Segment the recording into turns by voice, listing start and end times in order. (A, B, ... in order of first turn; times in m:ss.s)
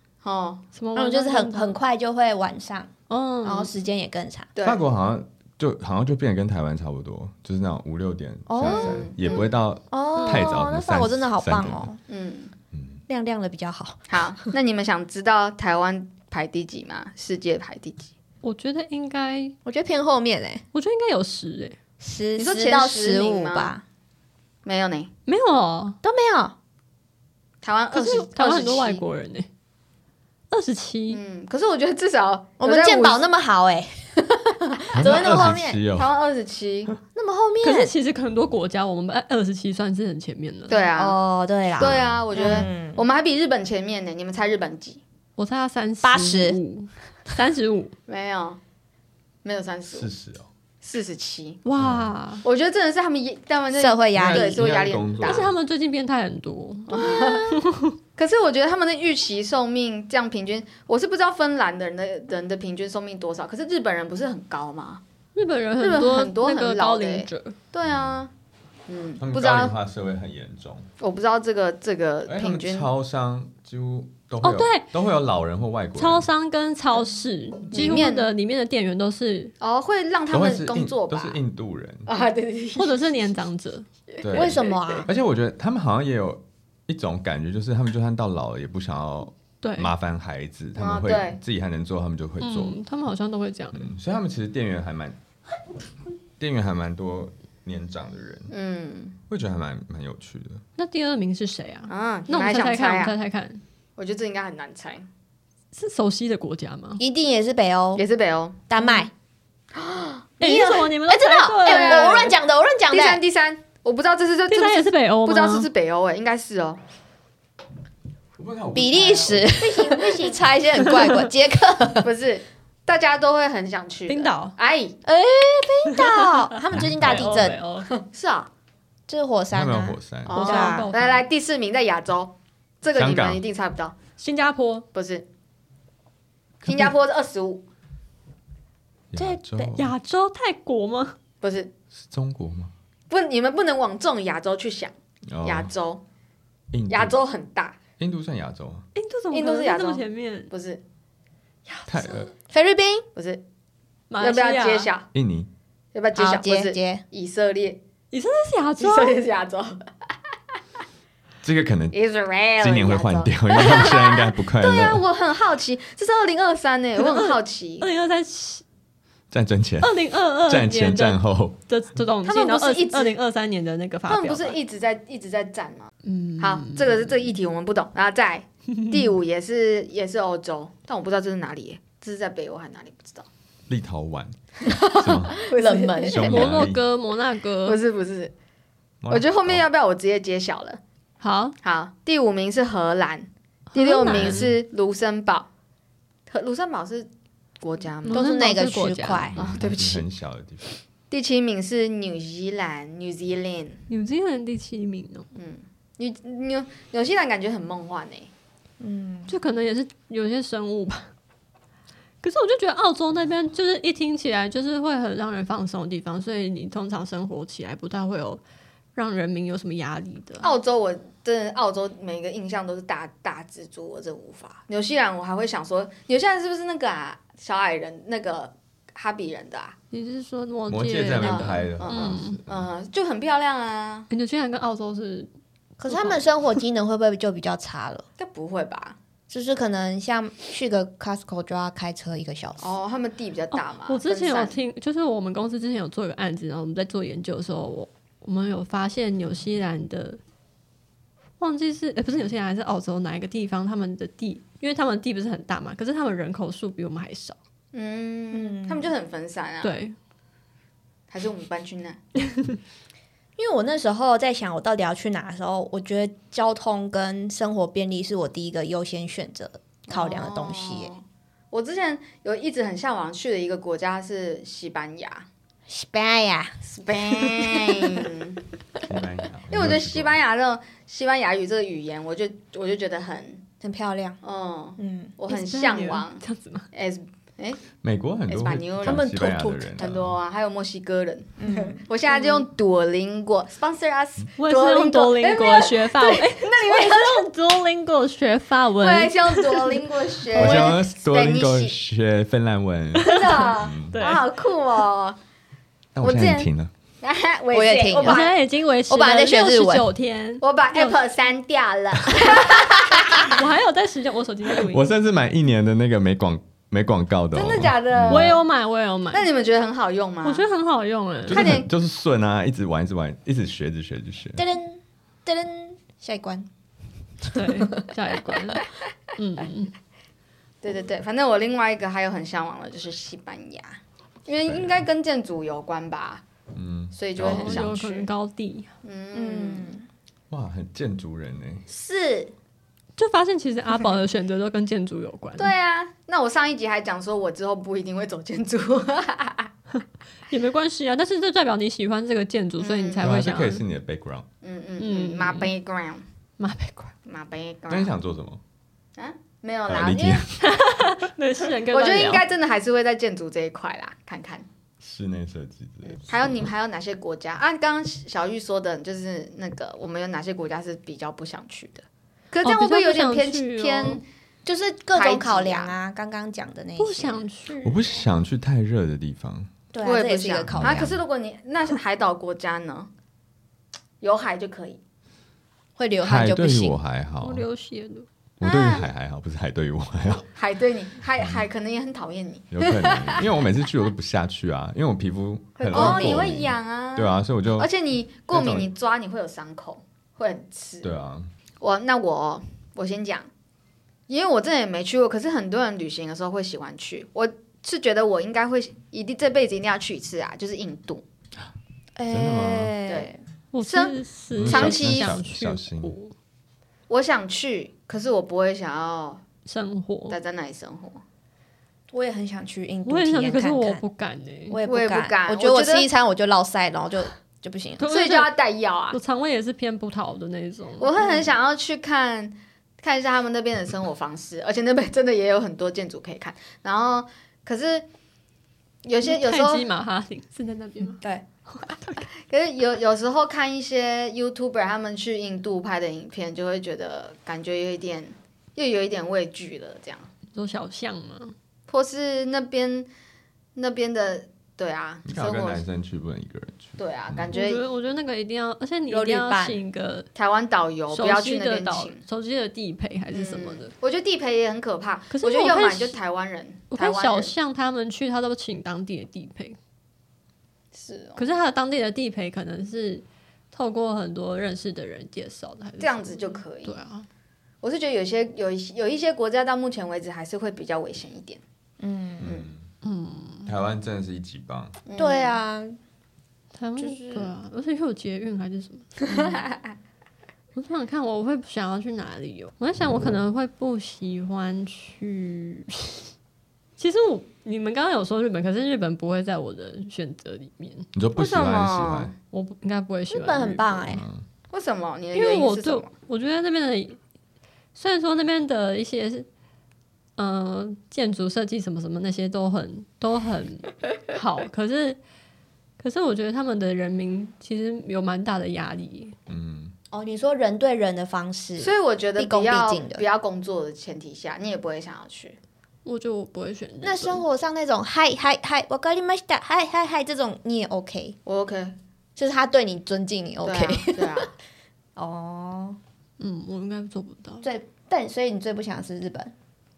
0:00.2-0:00.6 A
0:00.7-0:01.8 B
0:01.0-0:02.9 C
0:03.1-0:03.7 B
0:03.4-0:04.5 C
0:04.6-0:04.8 A
0:04.6-0:11.9 D
0:08.5-0:09.1 C
0:08.6-0:09.5 A
0:09.9-0:12.0 C
0:10.2-0:10.6 B
0:12.1-0:12.5 A
0:12.7-0:13.0 D
0:13.1-0:14.3 C
0:14.1-0:18.1 A
0:18.4-0:19.6 B
0:19.6-0:20.6 C
0:20.7-0:21.8 B
0:22.0-0:23.8 C
0:22.4-0:23.8 A
0:24.6-0:25.1 A
0:25.3-0:26.0 B
0:26.0-0:26.6 C
0:27.6-0:29.0 A
0:27.9-0:29.5 B
0:30.5-0:31.2 B
0:31.1-0:33.2 A
0:32.6-0:34.0 C
0:34.7-0:35.8 C
0:34.9-0:36.1 D
0:35.0-0:36.9 A
0:37.1-0:37.9 C
0:37.6-0:40.8 B
0:40.7-0:41.2 A
0:41.0-0:43.0 C
0:41.8-0:45.0 A
0:41.8-0:42.2 D
0:45.4-0:47.9 B
0:46.0-0:46.6 C
0:48.1-0:48.6 A
0:49.4-0:50.1 A
0:49.9-0:50.5 D
0:50.8-0:51.6 A
0:51.6-0:52.4 B
0:51.8-0:52.1 D
0:52.4-0:55.5 A
0:53.7-0:54.6 C
0:54.2-0:55.5 D
0:55.2-0:58.0 B
0:56.9-0:57.6 A
0:58.2-1:05.0 A
1:05.4-1:07.6 B
1:05.8-1:08.3 A
1:07.8-1:08.2 D
1:08.9-1:09.8 A
1:09.2-1:10.9 D
1:11.0-1:12.9 A
1:12.3-1:16.3 D
1:14.4-1:14.9 B
1:16.0-1:19.5 B
1:17.7-1:18.3 A
1:19.6-1:21.4 A
1:20.3-1:22.1 D
1:22.1-1:23.2 A
1:22.8-1:23.9 B
1:24.2-1:32.8 D
1:24.3-1:25.0 A
1:24.3-1:25.1 C
1:29.6-1:29.9 B
1:30.8-1:31.4 A
1:32.4-1:33.9 B
1:33.7-1:35.2 D
1:36.4-1:38.5 D
1:38.5-1:39.2 A
1:39.3-1:40.6 D
1:40.8-1:43.6 B
1:41.9-1:43.2 A
1:44.0-1:45.1 A
1:45.7-1:47.0 B
1:47.0-1:48.0 C
1:48.0-1:48.6 A
1:48.7-1:49.1 C
1:49.7-1:50.3 A
1:50.4-1:52.3 B
1:50.4-1:53.2 C
1:51.6-1:52.3 A
1:52.9-1:56.8 A
1:54.5-1:55.7 B
1:58.4-1:59.8 D
1:58.8-2:02.1 C
1:59.9-2:00.2 A
2:02.0-2:05.0 A
2:04.1-2:04.5 B
2:05.1-2:07.6 C
2:05.9-2:06.2 B
2:06.7-2:07.3 D
2:07.0-2:07.9 B
2:07.8-2:08.5 A
2:09.1-2:10.9 C
2:09.5-2:10.4 D
2:10.3-2:14.0 A
2:10.3-2:11.2 B
2:12.9-2:13.4 D
2:14.2-2:14.9 B
2:14.9-2:15.3 A
2:16.7-2:17.6 A
2:19.1-2:19.9 D
2:19.2-2:19.7 C
2:19.8-2:21.2 B
2:21.4-2:21.7 A
2:22.0-2:22.7 D
2:23.1-2:26.0 A
2:25.3-2:25.7 D
2:26.7-2:27.2 D
2:26.9-2:27.8 A
2:28.0-2:28.8 D
2:29.0-2:30.5 B
2:29.3-2:30.8 A
2:31.7-2:32.2 B
2:31.9-2:32.3 D
2:32.5-2:33.1 C
2:33.2-2:33.4 A
2:34.1-2:34.9 B
2:34.2-2:35.1 A
2:35.1-2:35.5 D
2:35.9-2:37.8 A
2:36.2-2:37.0 C
2:38.1-2:39.2 B
2:38.8-2:39.9 A
2:41.4-2:42.0 D
2:41.9-2:47.9 A
2:42.6-2:45.0 D
2:47.0-2:48.6 B
2:49.3-2:51.6 D
2:49.8-2:54.6 B
2:52.2-2:53.2 A
2:54.1-3:03.3 A
2:56.0-2:57.1 B
2:58.8-2:59.1 B
3:03.7-3:05.4 D
3:04.7-3:06.5 C
3:05.4-3:06.5 A
3:06.1-3:06.8 D
3:06.1-3:07.8 B
3:07.6-3:08.3 A
3:09.0-3:09.6 D
3:09.1-3:10.8 A
3:11.2-3:11.6 B
3:11.6-3:15.5 A
3:13.7-3:14.6 B
3:16.3-3:17.1 A
3:17.6-3:18.3 A
3:18.0-3:19.3 B
3:18.1-3:19.4 C
3:19.3-3:20.7 D
3:19.4-3:20.0 A
3:21.1-3:23.8 A
3:23.9-3:25.3 B
3:25.4-3:28.3 A
3:28.8-3:29.4 C
3:29.3-3:31.1 B
3:32.2-3:38.4 B
3:39.0-3:40.5 B
3:40.4-3:49.8 A
3:49.9-3:52.4 B
3:50.7-3:52.7 D
3:51.2-3:54.1 A
3:54.1-3:55.3 B
3:55.8-3:58.0 C
3:55.9-3:56.2 B
3:58.2-3:59.0 A
3:59.3-4:02.8 C
4:02.6-4:04.6 A
4:03.5-4:10.2 B
4:11.4-4:17.4 B
4:17.7-4:19.8 A
4:18.3-4:18.9 C
4:19.6-4:20.0 B
4:21.1-4:22.0 A
4:23.4-4:30.9 C
4:29.9-4:35.3 A
4:35.7-4:36.6 C
4:36.6-4:38.4 A
4:37.1-4:38.1 C
4:38.8-4:40.2 D
4:39.5-4:43.4 A
4:43.6-4:44.2 C
4:44.2-4:47.6 A
4:44.8-4:45.2 C
4:45.3-4:46.7 B
4:47.8-4:50.2 D
4:48.3-4:49.1 A
4:48.8-4:49.8 C
4:49.8-4:57.3 A
4:51.4-4:51.8 C
4:52.1-4:52.4 B
4:54.4-5:00.7 B
4:58.8-5:01.8 A
5:00.4-5:04.0 D
5:03.0-5:04.3 B
5:03.0-5:05.2 A
5:06.0-5:06.7 D
5:06.0-5:06.5 A
5:07.0-5:08.3 A
5:07.5-5:08.3 C
5:08.0-5:11.0 B
5:08.9-5:09.9 C
5:10.4-5:13.4 A
5:13.2-5:14.9 B
5:14.6-5:18.3 D
5:17.3-5:18.4 A
5:18.1-5:19.3 B
5:19.1-5:20.4 A
5:20.2-5:21.6 B
5:21.3-5:24.4 D
5:21.3-5:21.7 A
5:24.4-5:26.5 C
5:27.3-5:29.7 B
5:30.6-5:36.2 A
5:34.4-5:34.8 D
5:36.5-5:37.7 D
5:36.9-5:38.1 A
5:37.2-5:38.7 B
5:38.8-5:39.7 A
5:39.1-5:39.9 C
5:40.3-5:41.7 D
5:41.7-5:42.3 C
5:43.0-5:45.5 B
5:45.4-5:49.5 A
5:50.3-5:53.6 B
5:52.6-5:53.1 A
5:53.0-5:54.3 D
5:54.4-5:56.0 A
5:54.8-5:55.5 B
5:56.4-5:56.9 B
5:57.1-5:57.9 A
5:57.7-5:58.4 D
5:59.0-6:00.3 A
5:59.7-6:00.4 D
6:00.4-6:02.3 B
6:01.7-6:04.5 A
6:04.8-6:06.5 D
6:06.0-6:14.0 A
6:12.4-6:14.0 B
6:14.5-6:17.9 C
6:14.9-6:15.8 A
6:16.8-6:17.6 B
6:17.6-6:19.5 D
6:19.7-6:21.0 C
6:19.8-6:22.9 A
6:20.5-6:21.0 D
6:24.0-6:24.8 A
6:25.8-6:26.8 C
6:26.0-6:27.4 D
6:27.2-6:28.1 B
6:28.4-6:30.3 D
6:28.4-6:28.9 A
6:30.3-6:33.3 A
6:31.2-6:31.4 D
6:32.5-6:37.7 D
6:35.6-6:40.9 A
6:35.7-6:36.4 C
6:38.3-6:38.7 D
6:40.8-6:41.3 D
6:41.6-6:43.3 A
6:44.1-6:51.0 A
6:52.0-6:53.2 C
6:52.1-6:52.7 D
6:52.9-6:55.2 A
6:53.5-6:56.1 B
6:54.3-6:56.0 D
6:56.9-6:59.2 A
6:59.5-7:00.2 B
7:00.1-7:01.0 A
7:01.9-7:03.8 C
7:02.9-7:04.6 B
7:04.5-7:07.8 C
7:04.6-7:05.9 A
7:07.8-7:08.3 B
7:07.8-7:09.0 A
7:08.9-7:11.1 B
7:10.8-7:17.9 A
7:18.8-7:19.6 A
7:19.0-7:22.1 B
7:22.3-7:30.1 A
7:30.3-7:31.4 B
7:31.7-7:32.9 A
7:33.6-7:35.6 A
7:35.1-7:37.3 D
7:36.8-7:37.6 A
7:37.3-7:40.1 B
7:38.9-7:39.6 C
7:40.2-7:42.0 A
7:40.9-7:43.7 B
7:43.1-7:47.3 A
7:45.1-7:46.0 B
7:46.7-7:49.6 B
7:50.7-7:51.3 A
7:51.2-7:57.1 B
7:55.8-7:56.8 A
7:57.6-8:01.4 A
8:01.8-8:02.4 C
8:02.2-8:02.7 D
8:02.8-8:03.5 B
8:03.4-8:04.8 D
8:04.9-8:05.4 A
8:05.0-8:05.8 C
8:06.6-8:09.2 B
8:06.8-8:07.3 C
8:09.1-8:09.7 A
8:10.6-8:16.1 B
8:16.8-8:20.9 B
8:20.9-8:22.1 D
8:21.2-8:22.1 A
8:22.3-8:23.9 B
8:23.1-8:24.1 C
8:23.9-8:24.2 D
8:24.5-8:25.9 A
8:25.1-8:27.0 B
8:27.8-8:29.3 B
8:30.2-8:35.0 B
8:35.8-8:39.2 B
8:39.3-8:39.7 D
8:39.9-8:43.0 C
8:41.6-8:45.4 A
8:45.8-8:47.2 B
8:46.8-8:51.2 C
8:51.2-8:51.8 A
8:52.2-8:54.3 C
8:53.4-8:54.3 A
8:55.0-8:55.8 C
8:56.2-8:57.4 B
8:57.4-8:59.3 C